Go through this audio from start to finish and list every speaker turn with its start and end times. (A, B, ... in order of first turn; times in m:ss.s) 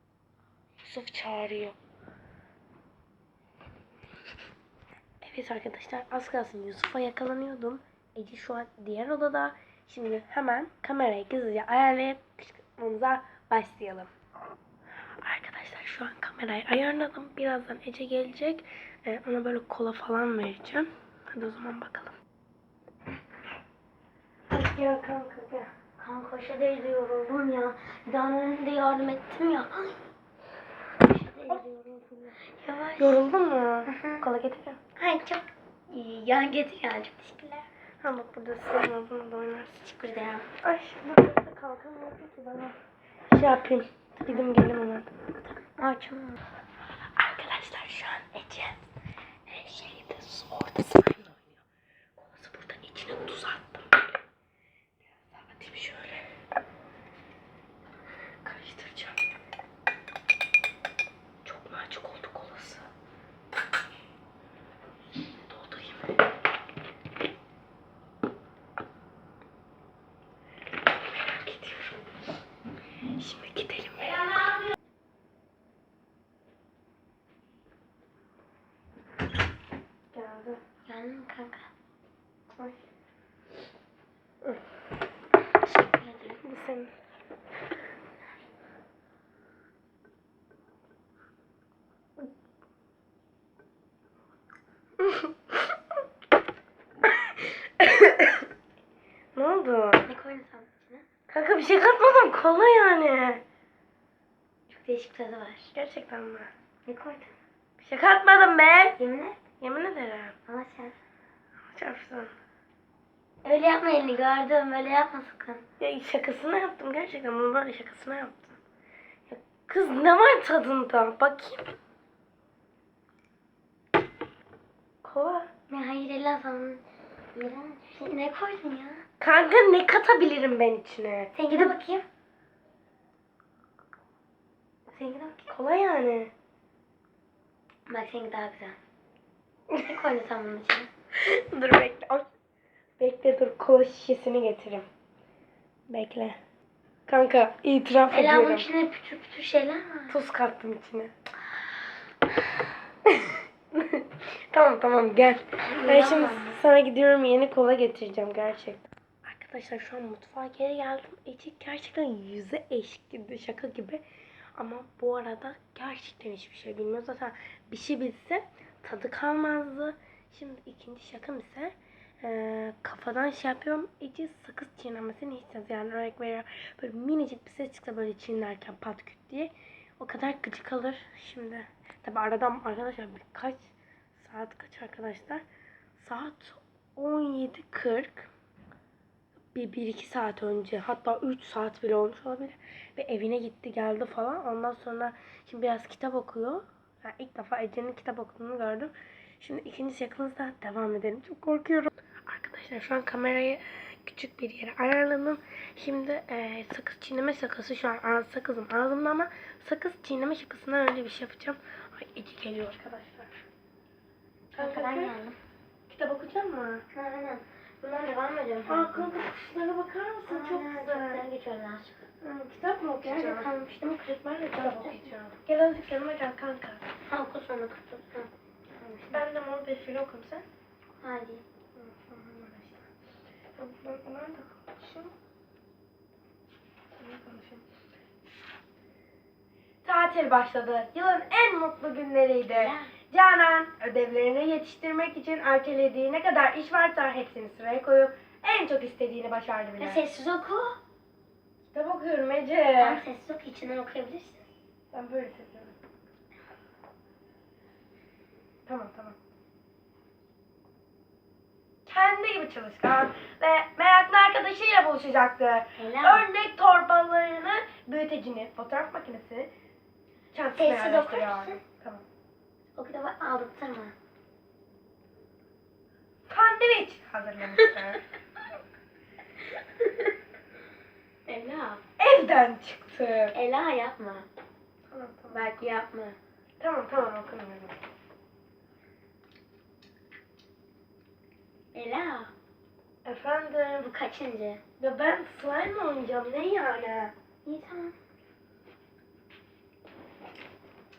0:00.8-0:01.8 A
0:05.2-0:14.1 A
0:15.2-0:22.2 A
0:24.5-0:25.7 A
0:26.0-0:30.1 B
0:31.0-0:31.7 B
0:31.3-0:32.4 A
0:32.5-0:33.2 B
0:33.0-0:34.8 A
0:33.9-0:34.2 B
0:35.0-0:37.7 B
0:38.0-0:39.9 A
0:39.8-0:40.5 B
0:40.6-0:42.8 A
0:43.3-0:45.1 A
0:45.5-0:46.4 B
0:47.2-0:48.8 A
0:49.5-0:51.6 A
0:52.2-0:54.1 A
0:55.0-0:56.3 A
0:58.4-0:59.2 A
1:01.4-1:02.9 A
1:05.3-1:06.2 A
1:10.8-1:12.0 A
1:13.1-1:14.6 A
1:20.1-1:20.6 A
1:20.9-1:21.7 B
1:22.5-1:22.8 A
1:25.8-1:26.4 B
1:26.4-1:26.9 A
1:35.0-1:35.3 A
1:37.1-1:38.5 A
1:39.4-1:40.1 A
1:40.0-1:41.1 B
1:41.3-1:43.4 A
1:44.7-1:45.7 B
1:45.7-1:46.5 A
1:46.9-1:47.3 B
1:47.8-1:49.0 A
1:49.0-1:49.4 B
1:49.6-1:50.4 A
1:50.5-1:51.0 B
1:51.7-1:52.3 A
1:53.4-1:55.6 B
1:55.8-1:58.6 A
1:59.3-2:01.7 A
2:05.0-2:05.5 A
2:05.7-2:06.8 B
2:07.4-2:09.0 B
2:09.2-2:11.8 A
2:11.4-2:12.1 B
2:14.9-2:15.5 B
2:15.5-2:16.3 A
2:17.9-2:18.8 B
2:19.8-2:20.9 B
2:21.2-2:22.2 A
2:23.0-2:24.9 A
2:25.9-2:26.4 A
2:27.1-2:28.7 A
2:28.1-2:30.2 B
2:30.1-2:31.1 A
2:33.1-2:44.0 A
2:35.6-2:36.6 B
2:44.6-3:05.4 A
3:06.0-3:08.3 A
3:09.5-3:33.3 A
3:34.6-3:35.1 A
3:34.6-3:35.4 B
3:35.9-3:36.8 A
3:36.9-3:39.1 B
3:38.7-3:41.2 A
3:40.3-3:42.0 B
3:42.2-3:43.5 A
3:43.0-3:45.1 B
3:44.3-3:46.8 A
3:47.1-3:49.2 B
3:49.1-3:50.5 A
3:51.0-3:51.4 B
3:51.8-3:52.9 A
3:53.6-3:55.1 A
3:57.0-3:57.7 A
3:59.8-4:10.0 A
4:02.5-4:02.9 B
4:09.8-4:10.8 B
4:11.7-4:13.0 A
4:12.8-4:14.5 B
4:14.9-4:15.8 A
4:18.7-4:19.2 A
4:21.9-4:29.5 A
4:25.8-4:26.3 B
4:30.3-4:32.0 A
4:30.5-4:31.6 B
4:32.8-4:34.0 B
4:36.3-4:38.1 A
4:41.3-4:41.8 B
4:42.0-4:43.4 A
4:43.3-4:44.3 B
4:44.9-4:45.5 A
4:45.3-4:46.2 B
4:46.6-4:47.8 A
4:51.7-4:52.3 B
4:53.0-4:53.9 A
4:53.8-4:54.6 B
4:54.8-4:57.1 A
4:57.4-4:58.0 B